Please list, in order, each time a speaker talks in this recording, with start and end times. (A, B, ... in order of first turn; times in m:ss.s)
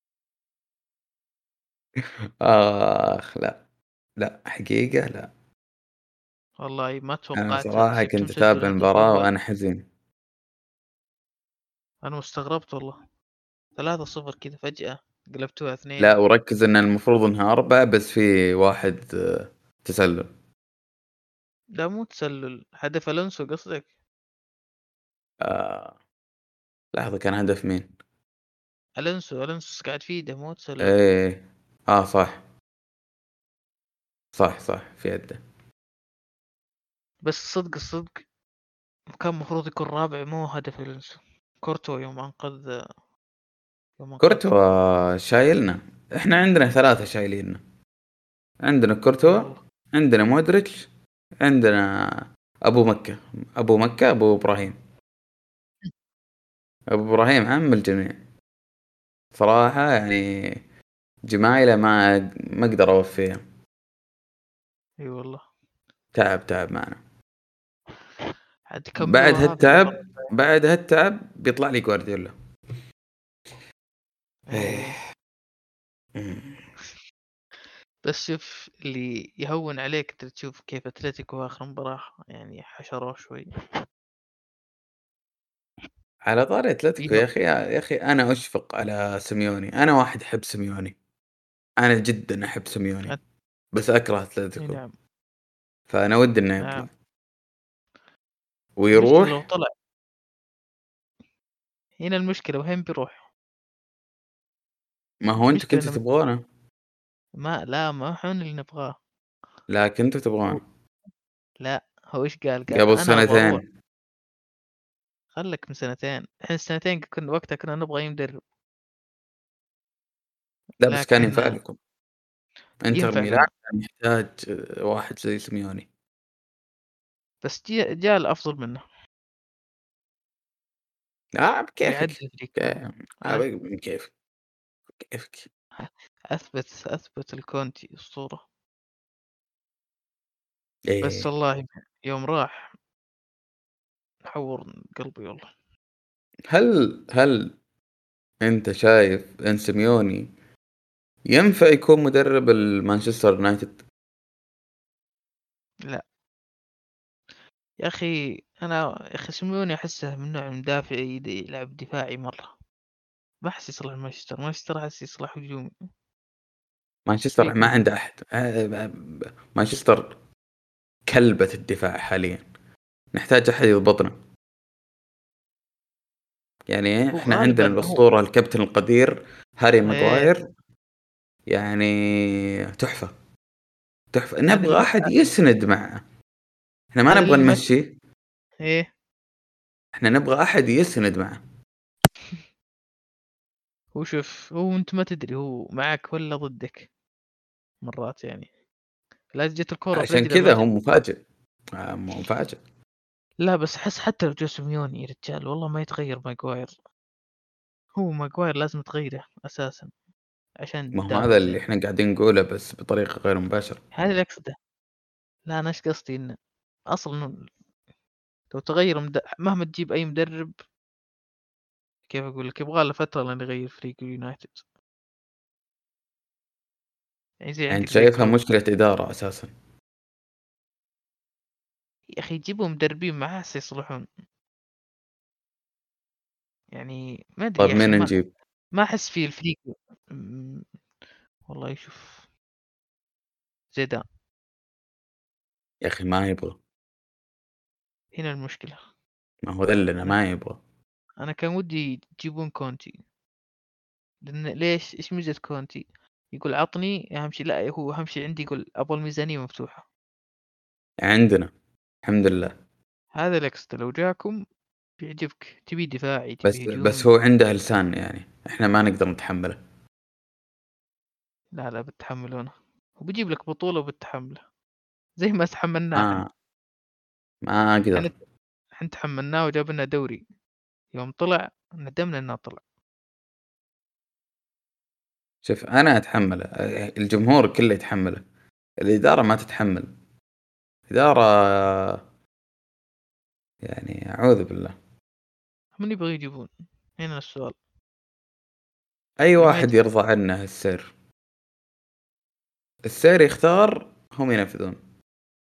0:02.0-0:03.6 A
0:04.2-0:05.3 A
0:06.6-0:09.3 B
0:07.4-0:09.9 A
0:12.0-0:13.0 B
0:13.8-0:16.2 B
0:16.0-0:20.3 A
0:21.8-0:23.9 B
0:25.4-0:25.9 A
0:26.9-0:27.9 A
0:29.0-0:30.9 B
0:30.8-0:32.4 A
0:34.4-0:35.4 A
0:37.2-0:38.2 B
0:39.2-0:42.7 B
0:44.0-0:44.5 B
0:44.2-0:47.6 A
0:48.6-0:50.9 A
0:49.2-0:49.6 B
0:51.4-0:54.8 A
0:56.9-0:58.2 A
0:59.4-1:00.6 A
1:01.3-1:03.4 A
1:05.0-1:05.4 B
1:06.1-1:07.0 A
1:08.7-1:10.3 B
1:09.0-1:12.3 A
1:14.5-1:15.0 B
1:14.5-1:15.0 A
1:16.1-1:16.6 A
1:18.0-1:23.5 B
1:26.2-1:30.9 A
1:27.0-1:27.3 B
1:31.8-1:33.1 A
1:33.7-1:34.8 A
1:34.6-1:34.9 B
1:35.9-1:36.9 A
1:36.6-1:36.9 B
1:38.8-1:39.4 A
1:38.9-1:39.7 B
1:42.0-1:43.3 B
1:45.2-1:46.4 A
1:45.5-1:46.0 B
1:47.4-1:49.0 B
1:49.7-1:50.6 A
1:51.6-1:53.6 B
1:52.7-1:53.6 A
1:55.4-1:58.4 B
2:00.8-2:01.8 A
2:00.8-2:01.6 B
2:02.8-2:05.9 A
2:02.9-2:03.5 B
2:07.4-2:08.8 B
2:11.4-2:14.1 A
2:11.8-2:13.4 B
2:15.0-2:15.5 A
2:15.8-2:18.4 B
2:20.9-2:21.3 A
2:21.0-2:22.7 B
2:24.3-2:25.5 B
2:26.5-2:27.6 A
2:28.4-2:30.3 A
2:31.3-2:33.8 A
2:37.8-2:42.5 B
2:43.4-2:45.7 B
2:47.1-2:50.1 A
2:47.4-2:47.9 B
2:51.1-2:52.4 A
2:53.1-2:54.1 A
2:56.7-3:00.4 A
2:57.1-2:58.0 B
2:59.9-3:00.3 B
3:01.5-3:03.1 A
3:04.1-3:06.0 A
3:04.5-3:05.3 B
3:06.9-3:07.9 A
3:07.1-3:07.6 B
3:10.0-3:11.4 A
3:14.0-3:16.9 B
3:17.8-3:18.5 B
3:19.3-3:20.6 B
3:20.0-3:21.2 A
3:21.8-3:22.6 A
3:23.4-3:26.7 B
3:28.0-3:29.9 B
3:30.6-3:31.6 B
3:31.0-3:33.8 A
3:34.0-3:34.6 B
3:35.5-3:36.3 B
3:36.9-3:37.3 B
3:38.5-3:40.5 B
3:42.1-3:44.6 B
3:47.4-3:48.4 B
3:47.7-3:49.5 A
3:52.2-3:54.0 B
3:56.7-3:58.1 B
3:57.6-3:58.3 A
3:58.7-4:00.6 B
4:01.5-4:02.2 B
4:03.7-4:04.0 B
4:05.8-4:06.6 A
4:08.1-4:08.8 B
4:09.4-4:10.6 A
4:11.2-4:13.0 B
4:14.2-4:19.8 B
4:21.0-4:21.5 A
4:22.0-4:22.6 A
4:23.2-4:24.4 B
4:25.0-4:27.1 B
4:26.4-4:29.6 A
4:31.6-4:34.4 B
4:35.2-4:36.2 B
4:36.0-4:36.3 A
4:37.4-4:38.1 A
4:38.8-4:40.2 B
4:40.9-4:42.6 B
4:45.4-4:48.2 A
4:48.8-4:49.9 A
4:50.9-4:52.0 A
4:53.6-4:54.8 A
4:55.8-4:57.6 B
4:59.2-5:00.9 A
4:59.4-4:59.7 B
5:02.8-5:04.8 A